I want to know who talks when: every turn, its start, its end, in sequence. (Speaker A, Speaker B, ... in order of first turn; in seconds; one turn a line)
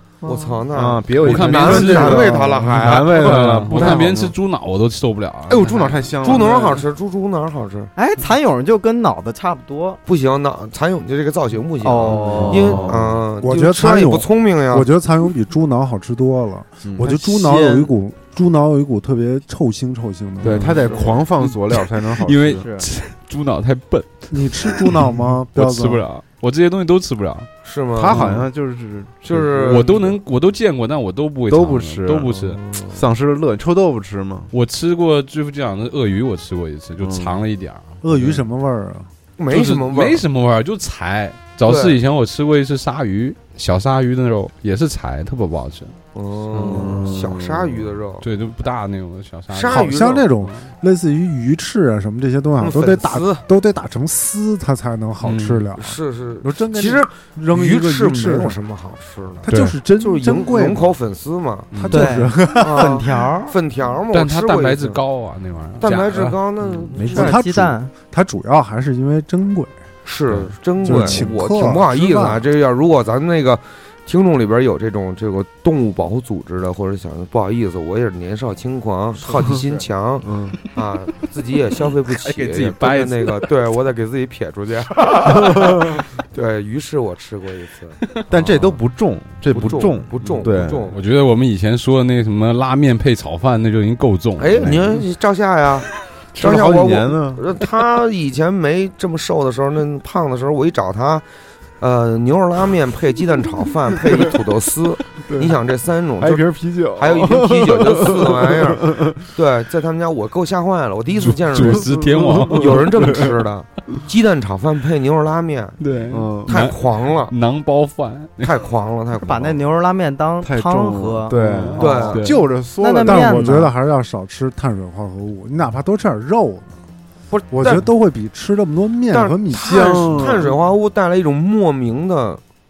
Speaker A: 0.2-0.6
Speaker B: 0.2-4.0
Speaker C: 0.7-4.3
Speaker D: 1.2-6.0
Speaker E: 1.9-2.4
Speaker C: 5.5-6.8
Speaker B: 6.2-7.9
Speaker A: 8.0-10.0
Speaker B: 10.1-14.9
Speaker A: 11.8-12.8
Speaker C: 12.1-13.2
Speaker E: 13.4-20.9
Speaker C: 16.8-17.9
Speaker C: 20.4-22.6
Speaker B: 20.8-21.1
Speaker D: 21.4-27.5
Speaker A: 22.6-22.9
Speaker E: 24.3-26.1
Speaker B: 27.6-28.2
Speaker C: 27.9-30.1
Speaker D: 28.1-28.4
Speaker B: 29.2-30.1
Speaker D: 29.7-32.6
Speaker C: 31.5-34.5
Speaker B: 32.7-33.0
Speaker D: 34.5-38.0
Speaker C: 37.0-37.4
Speaker E: 38.0-39.1
Speaker B: 39.4-40.2
Speaker D: 39.5-46.0
Speaker B: 41.6-42.0
Speaker B: 46.1-48.2
Speaker D: 46.5-47.0
Speaker C: 46.6-47.9
Speaker D: 48.2-50.7
Speaker B: 49.5-50.3
Speaker E: 49.6-58.6
Speaker B: 52.6-53.5
Speaker D: 55.2-55.6
Speaker B: 55.8-61.7
Speaker E: 59.4-61.0
Speaker C: 59.5-59.7
Speaker D: 61.7-62.1
Speaker E: 61.7-63.0
Speaker A: 61.9-63.5
Speaker B: 62.6-65.0
Speaker D: 64.1-66.9
Speaker B: 65.8-67.4
Speaker E: 67.0-69.8
Speaker A: 67.1-67.9
Speaker B: 70.0-88.0
Speaker D: 70.3-71.1
Speaker E: 70.8-72.4
Speaker A: 79.2-79.8
Speaker C: 80.2-80.6
Speaker D: 82.1-83.5
Speaker C: 85.4-85.8
Speaker C: 88.3-90.8
Speaker B: 89.5-91.0
Speaker D: 90.2-95.0
Speaker B: 94.4-101.2
Speaker C: 94.6-95.0
Speaker C: 96.3-97.4
Speaker B: 101.8-106.4
Speaker C: 105.3-105.5
Speaker C: 106.2-109.2
Speaker B: 107.0-115.8
Speaker D: 111.2-113.2
Speaker C: 111.7-113.3
Speaker D: 115.8-118.6
Speaker C: 116.1-116.5
Speaker B: 116.5-117.3
Speaker B: 118.4-119.6
Speaker A: 119.2-121.3
Speaker C: 120.4-123.6
Speaker D: 121.3-122.4
Speaker B: 121.8-122.3
Speaker A: 122.8-123.7
Speaker E: 123.0-126.7
Speaker B: 127.3-127.9
Speaker E: 127.5-130.2
Speaker B: 129.1-132.4
Speaker C: 129.5-130.6